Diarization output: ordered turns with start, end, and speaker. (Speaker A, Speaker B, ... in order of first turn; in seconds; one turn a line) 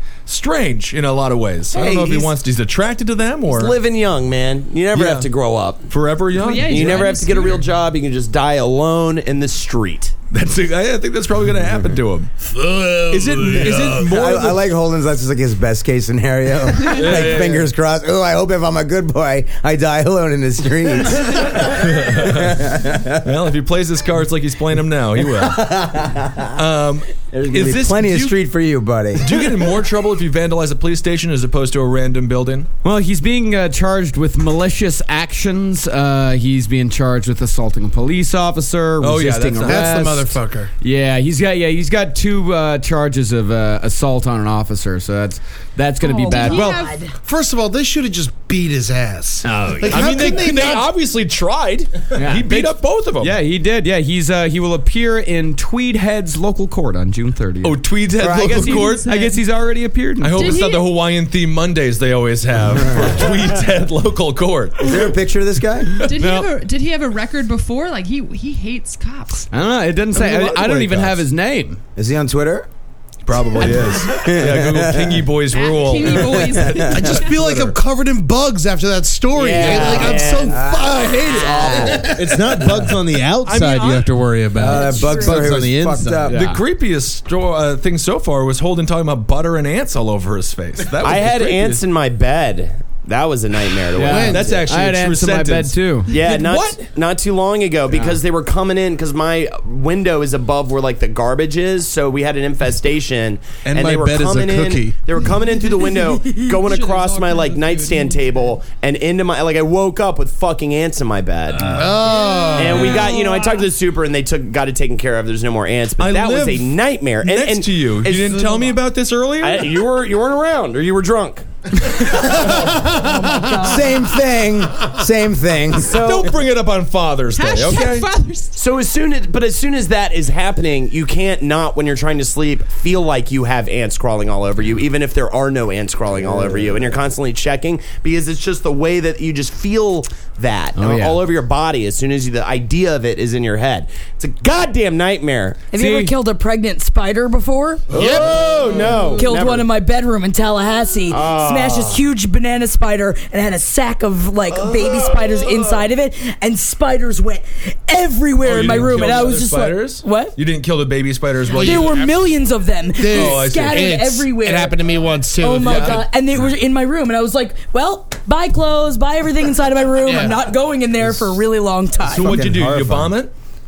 Speaker A: 0.2-3.8
Speaker B: 1.7-2.3
Speaker B: 3.5-5.9
Speaker A: 4.9-5.3
Speaker A: 5.9-7.1
Speaker C: 6.3-7.7
Speaker B: 6.6-10.1
Speaker A: 10.3-12.3
Speaker D: 12.4-14.0
Speaker A: 13.1-14.6
Speaker E: 13.8-23.4
Speaker A: 16.8-17.7
Speaker A: 21.6-25.9
Speaker E: 25.2-26.5
Speaker A: 26.5-28.4
Speaker E: 27.3-29.6
Speaker A: 29.2-32.7
Speaker F: 32.8-46.9
Speaker A: 39.0-39.9
Speaker D: 39.6-40.7
Speaker G: 46.0-47.1
Speaker C: 46.2-47.0
Speaker D: 47.2-50.9
Speaker F: 49.4-50.2
Speaker A: 49.9-53.3
Speaker F: 52.1-60.5
Speaker A: 57.6-59.1
Speaker E: 58.2-58.5
Speaker C: 58.3-59.4
Speaker A: 60.2-65.1
Speaker C: 60.3-60.9
Speaker E: 62.9-63.1
Speaker E: 64.8-65.9
Speaker C: 66.0-69.5
Speaker F: 66.2-66.5
Speaker F: 69.5-71.8
Speaker A: 70.2-71.0
Speaker E: 70.4-71.1
Speaker E: 72.0-72.7
Speaker A: 73.2-77.7
Speaker E: 73.5-75.3
Speaker C: 73.6-73.9
Speaker C: 75.5-77.4
Speaker E: 76.2-77.2
Speaker D: 76.9-82.4
Speaker B: 79.3-80.6
Speaker F: 79.5-80.3
Speaker E: 80.4-82.9
Speaker G: 81.2-82.0
Speaker H: 82.0-86.3
Speaker A: 83.4-85.3
Speaker E: 84.5-86.4
Speaker C: 84.9-85.2
Speaker F: 86.3-86.6
Speaker A: 86.3-91.8
Speaker B: 91.0-94.5
Speaker F: 93.9-96.1
Speaker D: 94.0-94.5
Speaker A: 94.1-96.8
Speaker B: 96.1-111.7
Speaker F: 97.9-98.2
Speaker H: 103.6-105.0
Speaker C: 106.3-108.4
Speaker D: 111.7-112.9
Speaker C: 112.0-113.3
Speaker A: 112.5-113.0
Speaker B: 112.5-118.8
Speaker G: 112.9-113.6
Speaker A: 116.0-119.8
Speaker B: 119.4-121.5
Speaker G: 122.4-123.9
Speaker E: 123.4-126.3
Speaker B: 125.8-126.2
Speaker A: 125.9-128.1
Speaker C: 127.3-128.6
Speaker B: 128.5-145.7
Speaker F: 140.7-141.2
Speaker G: 145.7-148.0
Speaker F: 145.7-146.1
Speaker D: 147.9-148.7
Speaker B: 147.9-149.7
Speaker A: 148.0-148.9
Speaker G: 149.2-160.4
Speaker B: 151.1-152.0
Speaker A: 154.5-155.8
Speaker A: 158.4-162.1
Speaker D: 161.5-162.1
Speaker G: 161.5-172.4
Speaker D: 163.0-166.1
Speaker A: 163.1-164.0
Speaker A: 165.6-166.0
Speaker D: 170.0-170.3
Speaker A: 172.1-173.3
Speaker H: 172.2-173.1
Speaker F: 172.3-173.1